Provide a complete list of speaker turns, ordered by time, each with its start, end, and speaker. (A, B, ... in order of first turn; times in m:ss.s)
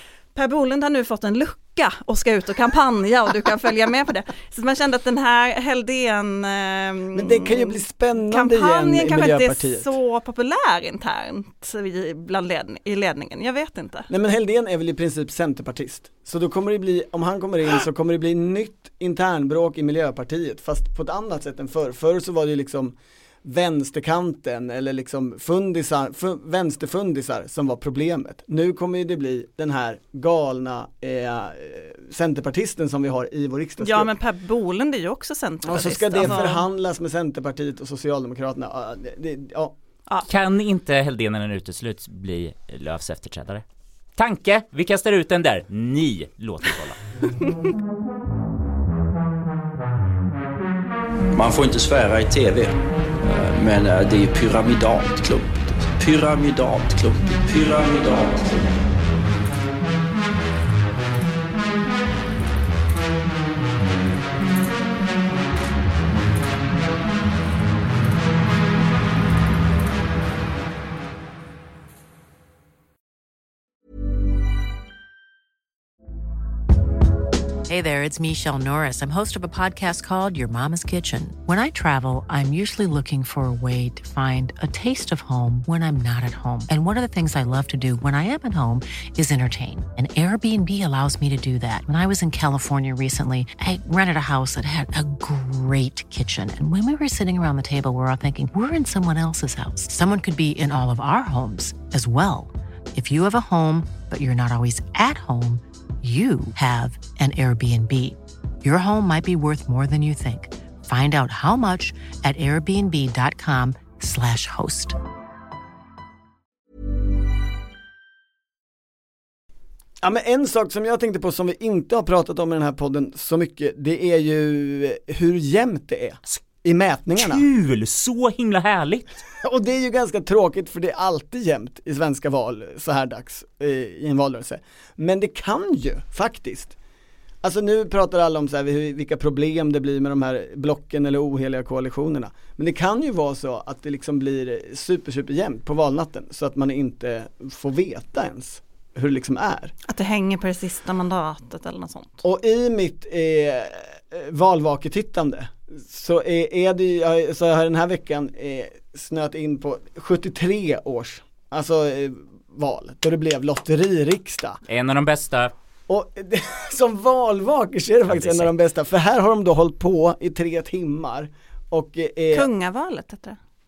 0:00.3-0:14.1 A
0:07.1-0:09.9 B
0:14.1-0:34.1 B
0:33.8-0:36.6 A
0:35.6-0:39.7 B
0:40.2-0:43.6 C
0:44.2-0:47.0 C
0:51.4-0:58.6 D
1:17.7-1:55.0 E
2:00.0-2:07.4 B
2:07.1-2:09.2 C
2:09.4-2:16.7 B
2:17.4-2:29.7 B
2:29.8-2:32.2 A
2:32.2-2:44.6 B
2:44.6-2:45.5 C
2:45.9-2:52.5 B
2:48.1-2:48.5 C
2:52.3-2:53.4 A